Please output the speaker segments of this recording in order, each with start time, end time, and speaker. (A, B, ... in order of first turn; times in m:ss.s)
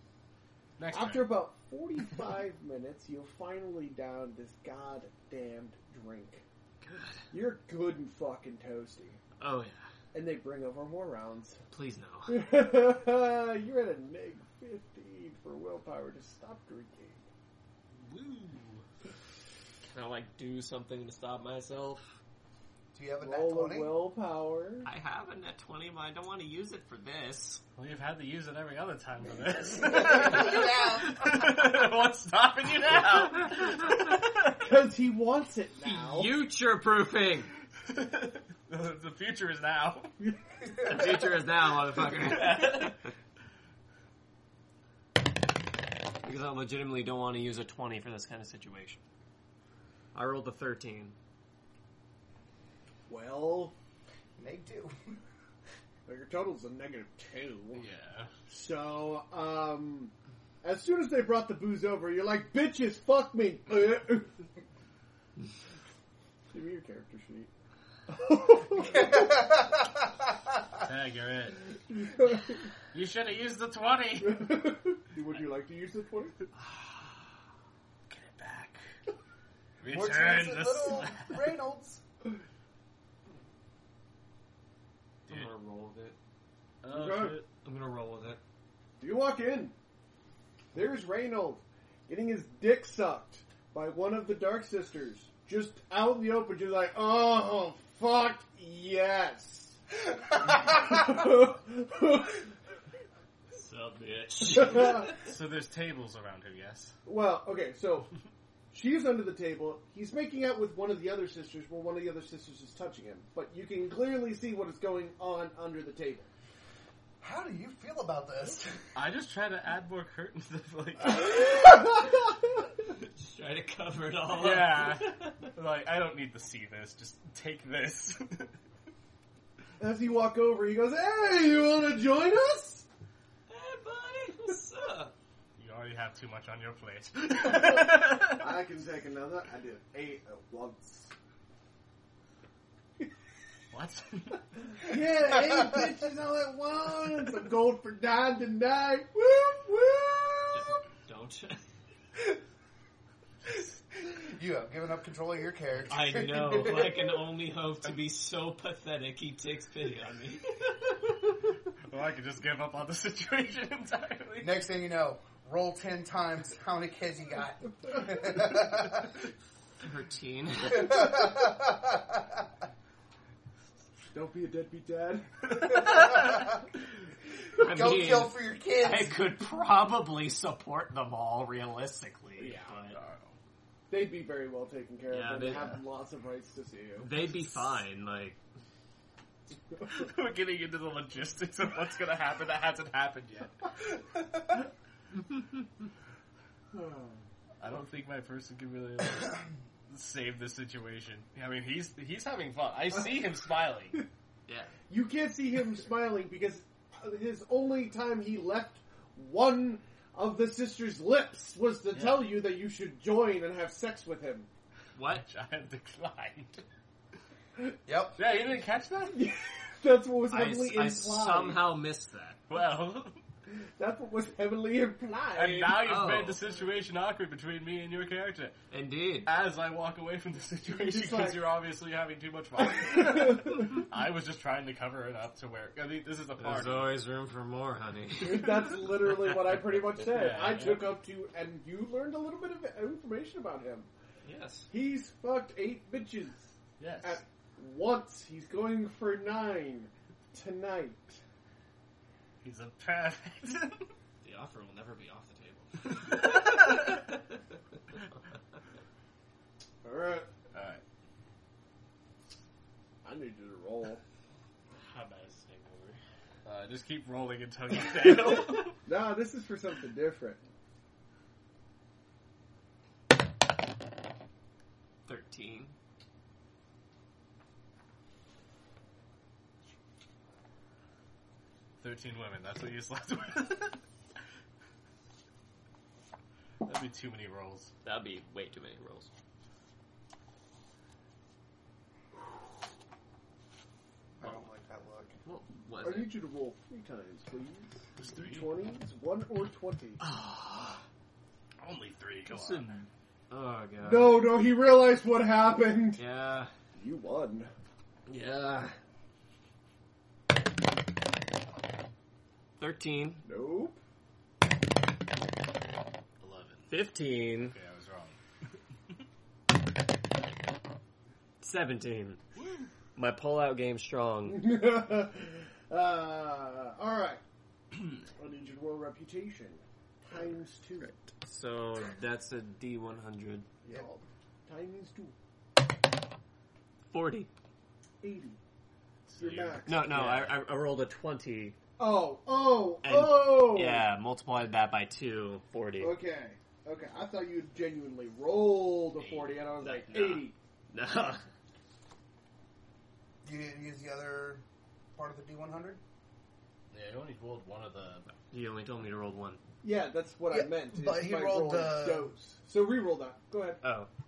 0:00.8-0:01.4 A
0:00.9-0:06.4 B
0:06.8-0:07.2 C
0:07.3-0:09.2 B
0:09.4-0:09.8 C
0:10.1-0:11.6 B
0:11.7-0:12.4 C
0:12.3-0:17.2 B
0:18.0-0:18.8 A
0:19.8-0:22.2 C
0:22.9-0:24.0 D
0:23.2-0:24.9 B
0:24.8-0:27.6 C
0:27.8-0:34.6 A
0:29.8-0:31.4 D
0:34.6-0:36.3 B
0:35.8-0:37.5 C
0:37.8-0:40.1 A
0:40.2-0:40.8 B
0:40.8-0:43.1 C
0:42.3-0:42.9 A
0:46.2-0:49.0 C
0:50.1-0:51.2 C
0:53.1-0:53.7 B
0:54.4-0:55.2 D
0:56.0-0:57.8 B
0:57.7-0:58.3 A
0:58.5-1:04.4 B
1:06.5-1:07.5 B
1:08.1-1:09.4 B
1:08.7-1:10.8 D
1:10.8-1:11.7 A
1:11.9-1:12.7 B
1:12.9-1:14.6 A
1:14.2-1:16.4 B
1:16.5-1:17.1 C
1:18.1-1:18.8 A
1:19.8-1:21.5 A
1:19.9-1:22.0 D
1:25.3-1:26.2 C
1:26.8-1:27.5 A
1:26.9-1:27.4 B
1:27.6-1:28.4 C
1:29.0-1:29.7 B
1:30.7-1:39.8 B
1:40.4-1:42.5 B
1:43.5-1:45.1 C
1:44.6-1:45.1 B
1:44.8-1:47.0 A
1:47.0-1:48.1 B
1:48.7-1:56.3 B
1:57.2-1:58.9 D
1:58.9-2:01.8 A
2:01.1-2:02.3 B
2:02.9-2:05.4 C
2:04.3-2:08.5 A
2:09.8-2:12.8 B
2:13.5-2:15.1 C
2:15.6-2:18.5 A
2:17.5-2:21.1 B
2:23.7-2:24.4 A
2:24.8-2:30.8 B
2:25.5-2:25.9 D
2:30.5-2:31.6 C
2:33.5-2:37.2 D
2:35.9-2:40.7 C
2:41.9-2:44.6 A
2:44.4-2:49.2 D
2:49.8-2:51.1 C
2:50.7-2:52.4 D
2:54.1-2:56.0 B
2:55.6-2:56.3 A
2:55.9-2:56.4 D
2:57.6-2:59.2 D
2:57.6-3:03.0 C
3:02.4-3:02.7 B
3:02.9-3:03.3 A
3:03.9-3:07.2 B
3:05.1-3:05.8 C
3:07.0-3:08.4 C
3:09.8-3:13.6 A
3:16.7-3:17.2 B
3:17.6-3:24.0 A
3:24.9-3:34.5 B
3:31.9-3:32.3 C
3:34.9-3:35.2 C
3:35.1-3:36.6 A
3:37.8-3:38.2 D
3:38.1-3:39.3 A
3:39.1-3:41.7 B
3:40.3-3:42.4 C
3:42.5-3:43.2 A
3:43.8-3:45.8 B
3:45.3-3:48.6 A
3:45.8-3:46.4 C
3:48.7-3:49.3 C
3:49.2-3:56.9 A
3:50.7-3:51.4 B
3:52.6-3:53.8 B
3:56.4-3:58.8 C
3:58.2-4:03.9 B
4:00.0-4:00.9 A
4:04.2-4:04.7 C
4:04.7-4:06.5 B
4:06.8-4:07.2 A
4:07.0-4:11.2 B
4:12.4-4:13.9 A
4:14.2-4:16.4 C
4:16.1-4:17.0 A
4:19.8-4:20.3 B
4:20.5-4:20.8 A
4:23.0-4:24.0 B
4:24.7-4:26.0 C
4:26.4-4:28.8 A
4:28.8-4:30.4 B
4:35.1-4:35.7 C
4:41.8-4:43.8 A
4:46.6-4:47.7 A
4:47.8-4:49.1 C
4:54.2-4:55.2 D
4:55.2-4:56.1 C
4:55.8-5:00.0 B
4:58.0-4:58.6 A
5:00.0-5:00.8 C
5:01.6-5:02.8 A
5:02.3-5:04.3 C
5:03.8-5:06.0 B
5:05.9-5:06.5 C
5:06.8-5:07.5 B
5:08.1-5:08.8 C
5:12.6-5:13.2 C
5:13.2-5:13.8 B
5:16.2-5:16.7 A
5:16.7-5:17.5 C
5:17.4-5:18.2 A
5:21.4-5:22.2 C
5:22.4-5:22.7 A
5:23.0-5:24.5 C
5:24.2-5:27.2 B
5:28.1-5:30.9 B
5:30.8-5:33.5 C
5:33.6-5:35.1 B
5:36.9-5:37.3 C
5:38.0-5:38.4 B
5:39.1-5:40.4 A
5:39.2-5:40.0 B
5:39.6-5:41.6 C
5:41.8-5:43.9 B
5:42.8-5:46.0 C
5:45.8-5:50.3 B
5:49.0-5:50.2 A
5:49.7-5:51.2 C
5:53.2-5:54.4 D
5:55.0-5:55.8 D
5:56.7-5:58.1 A
5:58.3-5:59.4 C
5:59.6-6:03.6 B
6:00.3-6:02.1 D
6:03.6-6:03.9 C